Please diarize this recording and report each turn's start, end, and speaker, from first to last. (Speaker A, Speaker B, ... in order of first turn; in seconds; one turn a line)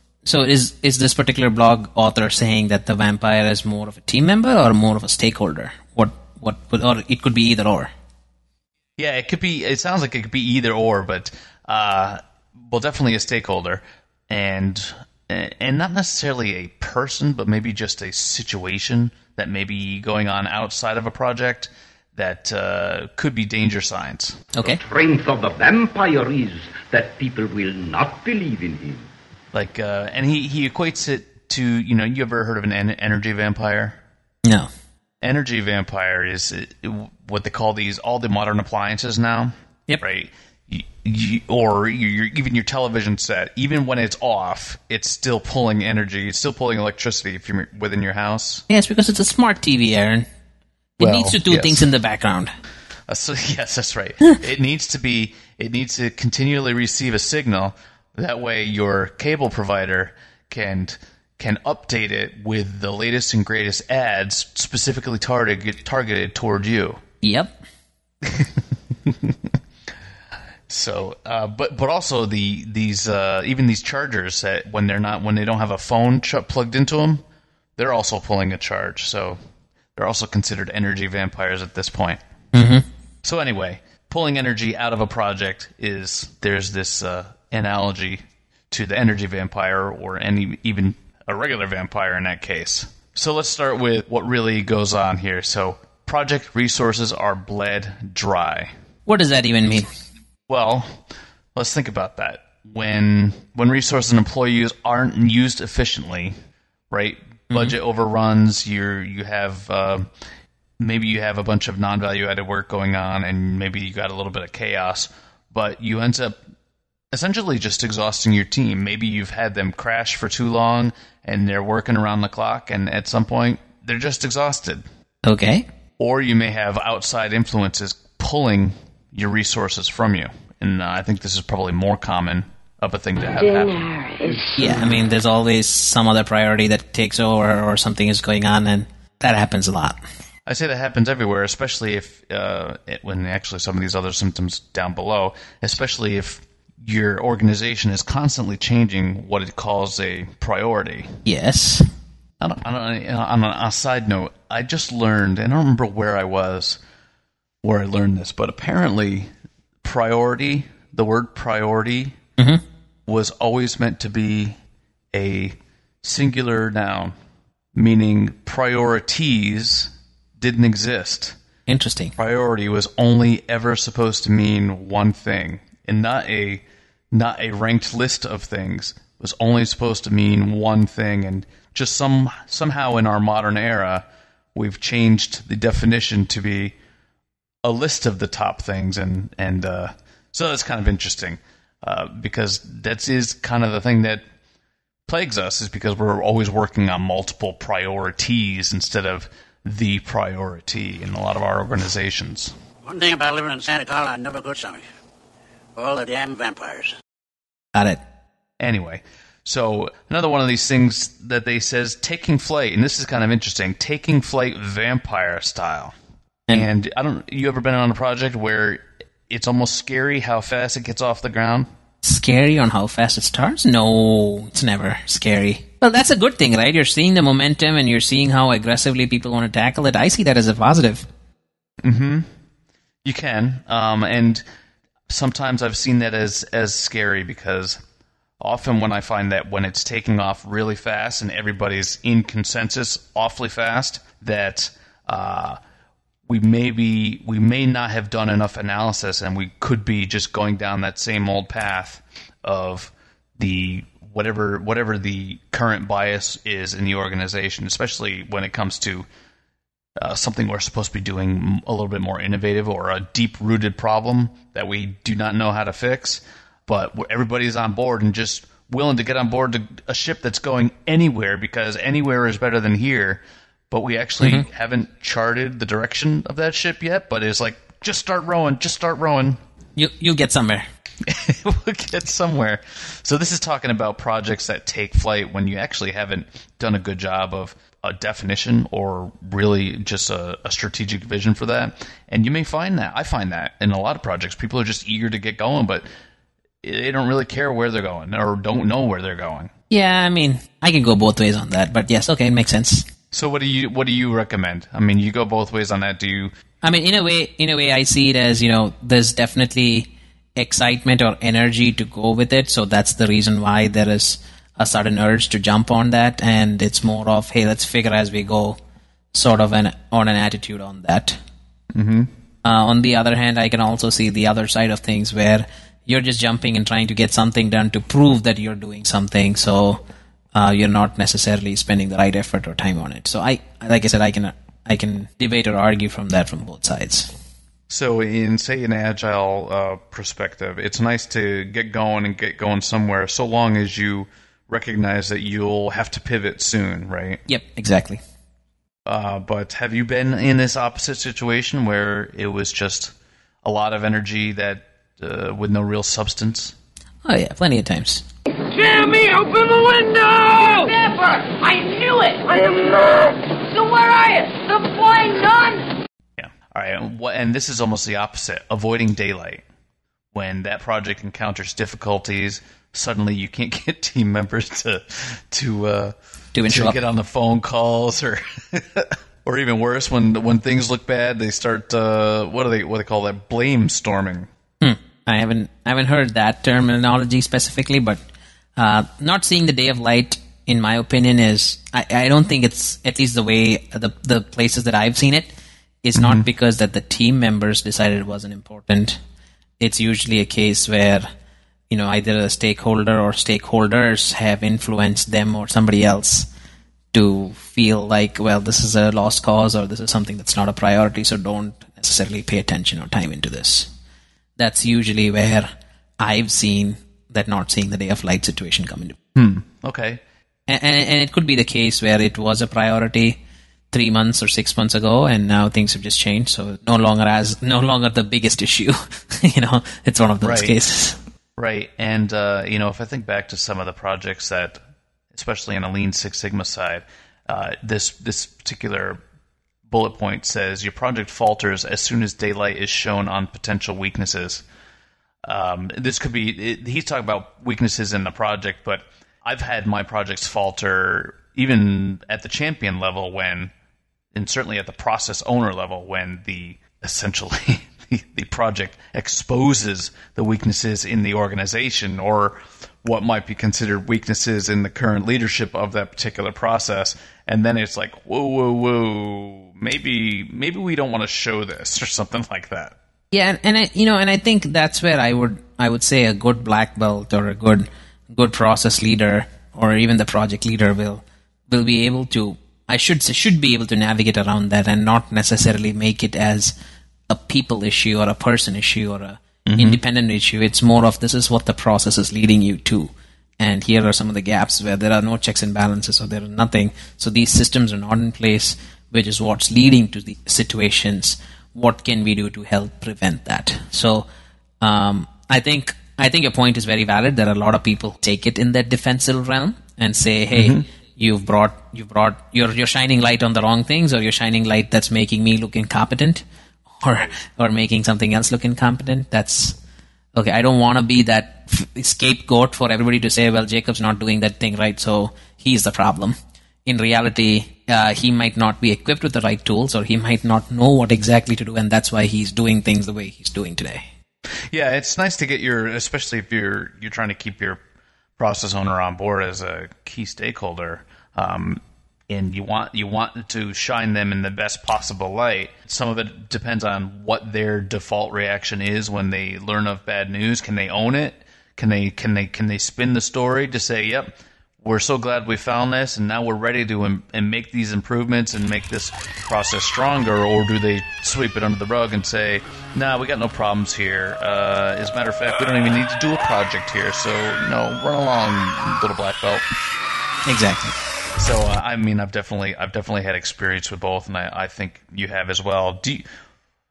Speaker A: 0.3-7.9
Speaker B: 9.0-24.5
Speaker A: 24.6-24.8
Speaker C: 24.6-29.1
Speaker B: 29.5-34.0
Speaker B: 35.2-48.6
Speaker A: 48.7-50.3
Speaker A: 51.0-52.5
Speaker B: 51.0-51.8
Speaker B: 53.1-67.0
Speaker A: 67.2-67.6
Speaker B: 68.2-68.5
Speaker B: 70.7-77.2
Speaker B: 77.8-79.4
Speaker B: 80.0-82.2
Speaker A: 82.5-82.8
Speaker B: 83.2-98.7
Speaker A: 99.1-99.9
Speaker B: 100.5-101.0
Speaker B: 101.5-106.4
Speaker B: 106.9-110.1
Speaker B: 110.8-116.4
Speaker B: 117.1-124.8
Speaker A: 125.2-125.7
Speaker B: 126.0-133.9
Speaker D: 133.7-134.5
Speaker A: 134.6-140.0
Speaker B: 140.5-151.2
Speaker A: 151.3-151.9
Speaker B: 152.4-156.8
Speaker B: 157.6-159.3
Speaker B: 159.8-162.2
Speaker A: 162.4-162.6
Speaker B: 163.1-164.6
Speaker B: 165.1-167.2
Speaker B: 167.8-171.4
Speaker A: 171.7-172.2
Speaker B: 172.2-186.8
Speaker B: 187.6-194.2
Speaker B: 195.1-202.5
Speaker E: 202.8-204.8
Speaker E: 205.8-206.9
Speaker B: 208.6-215.9
Speaker B: 216.5-221.7
Speaker A: 222.0-231.1
Speaker B: 231.8-232.3
Speaker B: 233.1-234.4
Speaker B: 235.1-237.8
Speaker B: 238.4-245.6
Speaker B: 246.3-259.1
Speaker B: 260.0-279.4
Speaker A: 274.2-274.4
Speaker A: 279.8-280.7
Speaker B: 281.1-295.9
Speaker B: 296.6-299.5
Speaker A: 299.7-302.9
Speaker B: 303.1-306.3
Speaker A: 306.6-318.6
Speaker A: 319.1-321.2
Speaker B: 321.7-322.1
Speaker A: 322.4-329.8
Speaker A: 330.3-337.1
Speaker B: 337.7-347.2
Speaker A: 347.3-348.0
Speaker B: 348.9-352.9
Speaker B: 353.4-356.6
Speaker A: 357.1-358.0
Speaker D: 358.5-365.8
Speaker B: 366.2-369.4
Speaker B: 370.1-375.9
Speaker A: 376.4-376.8
Speaker B: 376.5-384.3
Speaker A: 384.6-388.0
Speaker A: 388.6-395.3
Speaker A: 395.8-399.0
Speaker B: 396.0-396.3
Speaker A: 399.6-401.1
Speaker A: 401.7-406.3
Speaker A: 406.9-413.7
Speaker A: 414.4-419.0
Speaker B: 419.1-420.0
Speaker A: 420.5-423.2
Speaker A: 423.7-431.0
Speaker B: 430.2-430.6
Speaker B: 431.4-434.6
Speaker B: 435.1-439.0
Speaker B: 439.7-444.4
Speaker B: 445.2-453.5
Speaker B: 454.1-472.8
Speaker A: 473.1-486.5
Speaker A: 487.1-504.1
Speaker B: 489.5-489.8
Speaker A: 504.6-516.2
Speaker B: 510.4-510.6
Speaker A: 516.8-519.6
Speaker A: 520.1-533.9
Speaker B: 534.5-537.6
Speaker B: 538.2-569.5
Speaker A: 570.3-570.8
Speaker B: 571.2-576.0